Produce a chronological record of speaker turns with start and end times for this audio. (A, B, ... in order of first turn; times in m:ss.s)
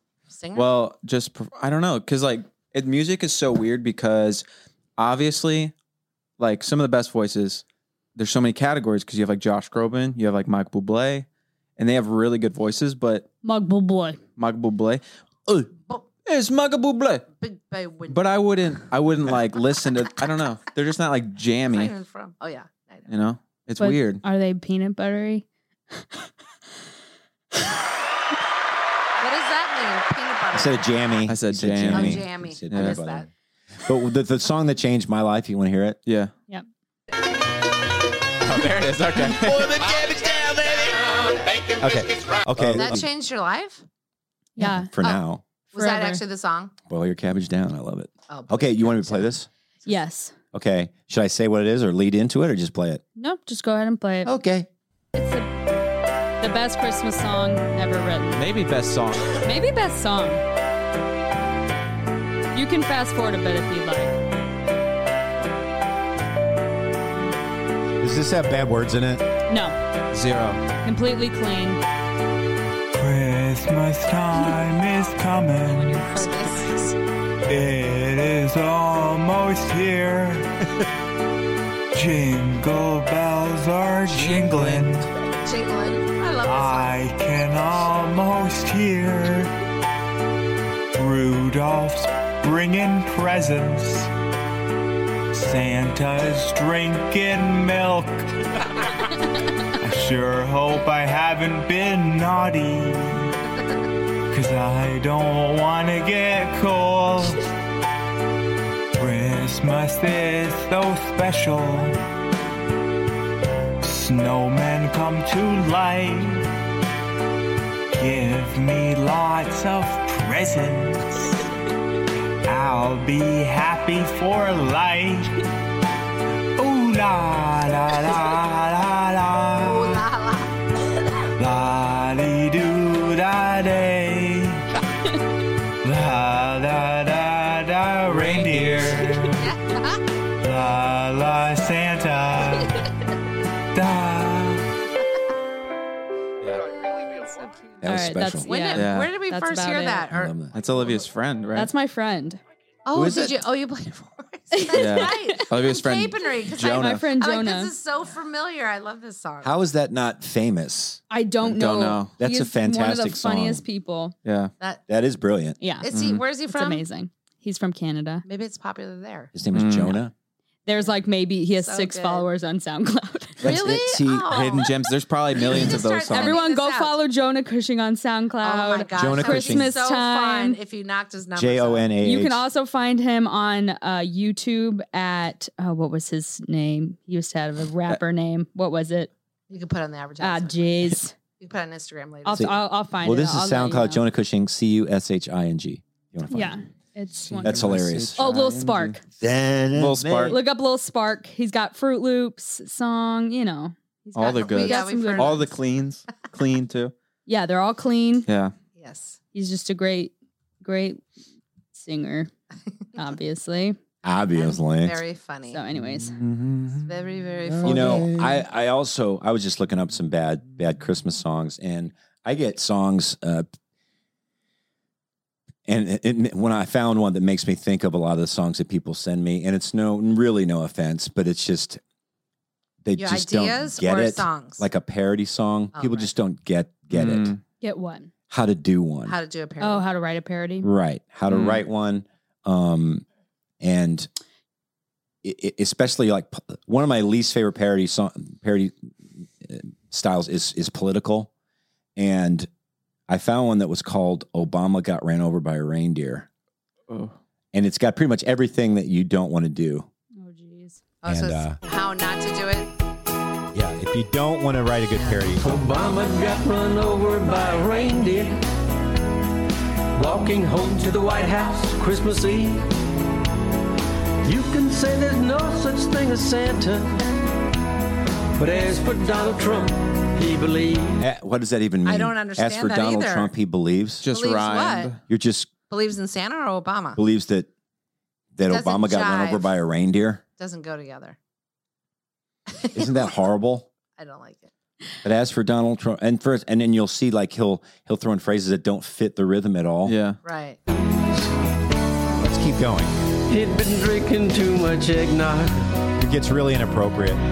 0:00.3-0:00.8 A
0:00.5-0:04.4 B
0:05.0-0:05.7 B
0:06.4-0:07.6 B
0:08.2-0:11.3 B
0:11.8-0:13.3 B
0:13.4-0:14.2 C
0:14.4-0:15.7 B
0:15.8-0:16.1 A
0:16.2-0:17.3 B
0:17.3-0:18.4 A
0:18.1-0:21.9 B
0:21.7-0:23.1 A
0:23.1-0:24.2 B
0:23.8-0:26.3 C
0:29.2-0:30.9 A
0:30.5-0:33.3 D
0:31.3-0:33.0 B
0:31.9-0:33.3 A
0:33.8-0:36.0 D
0:36.0-0:36.3 B
0:38.4-0:39.8 B
0:39.3-0:42.5 E
0:41.8-0:43.0 D
0:42.6-0:42.9 B
0:42.7-0:43.8 A
0:44.6-0:44.9 C
0:44.6-0:45.4 D
0:45.0-0:46.7 A
0:45.7-0:46.2 C
0:46.9-0:49.5 D
0:48.3-0:49.3 A
0:49.9-0:50.3 C
0:50.5-0:53.0 D
0:53.2-0:54.3 C
0:54.2-0:54.7 D
0:55.1-0:55.5 C
0:56.4-0:58.4 C
0:58.3-0:59.4 B
0:59.4-1:00.4 C
1:02.5-1:04.2 C
1:08.0-1:09.3 D
1:09.5-1:09.8 C
1:10.1-1:10.6 B
1:10.8-1:11.8 C
1:12.9-1:16.1 F
1:15.7-1:17.0 A
1:17.4-1:20.5 F
1:21.9-1:25.1 F
1:24.2-1:24.8 B
1:25.4-1:27.0 A
1:26.4-1:29.5 F
1:31.0-1:34.1 F
1:35.3-1:38.3 F
1:39.8-1:43.3 F
1:44.3-1:47.4 F
1:49.0-1:52.0 F
1:53.8-1:56.4 F
1:57.9-2:01.2 F
2:02.4-2:05.3 F
2:06.6-2:10.0 F
2:09.6-2:10.5 A
2:11.4-2:14.6 F
2:15.8-2:19.6 F
2:18.1-2:18.6 B
2:19.4-2:20.0 A
2:20.4-2:22.8 F
2:23.7-2:24.7 F
2:26.8-2:27.6 A
2:27.8-2:28.5 D
2:27.8-2:30.1 C
2:28.4-2:30.4 A
2:28.7-2:29.1 B
2:30.1-2:30.6 D
2:30.5-2:31.7 B
2:31.5-2:32.4 C
2:32.9-2:39.5 A
2:32.9-2:33.3 D
2:34.6-2:35.3 C
2:34.7-2:37.1 B
2:36.8-2:37.7 C
2:39.4-2:41.0 D
2:41.1-2:44.1 C
2:41.4-2:42.1 B
2:42.2-2:43.6 D
2:44.2-2:44.5 B
2:44.9-2:45.6 D
2:45.6-2:45.9 C
2:45.8-2:46.8 A
2:45.9-2:46.2 B
2:46.5-2:48.2 C
2:48.2-2:49.3 A
2:49.3-2:50.1 D
2:49.5-2:50.0 B
2:50.7-2:53.5 C
2:51.6-2:52.3 A
2:53.4-2:54.4 D
2:53.4-2:57.0 A
2:54.3-2:56.4 B
2:56.1-3:00.6 C
2:58.4-3:01.9 A
2:59.0-2:59.7 D
3:01.3-3:02.4 D
3:02.0-3:09.1 C
3:09.5-3:10.8 A
3:10.2-3:11.1 C
3:11.4-3:12.6 A
3:12.2-3:14.0 C
3:12.3-3:16.6 D
3:16.3-3:17.6 C
3:17.3-3:19.0 B
3:17.4-3:18.2 D
3:18.2-3:19.0 C
3:19.2-3:20.4 D
3:19.7-3:20.4 B
3:20.3-3:25.5 C
3:24.1-3:26.9 B
3:24.2-3:25.6 A
3:27.3-3:28.3 C
3:28.3-3:28.5 B
3:28.8-3:29.2 A
3:29.3-3:31.0 C
3:31.7-3:32.3 C
3:33.0-3:33.8 C
3:34.0-3:35.0 D
3:34.3-3:35.6 A
3:35.5-3:36.2 C
3:35.9-3:36.9 B
3:36.9-3:38.2 A
3:37.6-3:43.5 D
3:37.6-3:38.2 B
3:45.7-3:51.8 D
3:52.8-3:57.3 D
3:53.0-3:54.7 A
3:55.7-3:56.1 A
3:56.9-3:57.4 B
3:57.6-3:58.1 C
3:58.3-3:59.2 D
3:59.0-3:59.9 A
3:59.6-4:00.7 C
4:00.6-4:03.0 D
4:01.3-4:01.6 B
4:03.6-4:04.1 D
4:05.2-4:11.3 D
4:12.0-4:12.5 D
4:13.1-4:16.3 D
4:16.9-4:17.1 B
4:17.5-4:19.9 D
4:20.2-4:20.8 C
4:21.0-4:22.7 A
4:21.0-4:21.6 D
4:23.5-4:25.6 D
4:25.0-4:25.3 A
4:25.4-4:28.4 G
4:30.0-4:32.6 G
4:34.2-4:37.0 G
4:38.4-4:41.0 G
4:38.6-4:39.6 A
4:41.0-4:44.0 D
4:41.8-4:43.3 A
4:44.0-4:45.0 B
4:44.1-4:44.9 A
4:45.1-4:45.5 D
4:45.7-4:47.0 A
4:47.0-4:47.5 D
4:48.3-4:50.2 D
4:48.5-4:49.6 A
4:50.4-4:51.2 A
4:52.5-4:53.2 A
4:52.7-4:53.7 D
4:54.0-4:54.5 A
4:55.0-5:00.0 D
4:59.9-5:00.2 B
5:00.2-5:00.6 A
5:02.2-5:02.9 D
5:03.3-5:05.7 G
5:06.0-5:07.2 D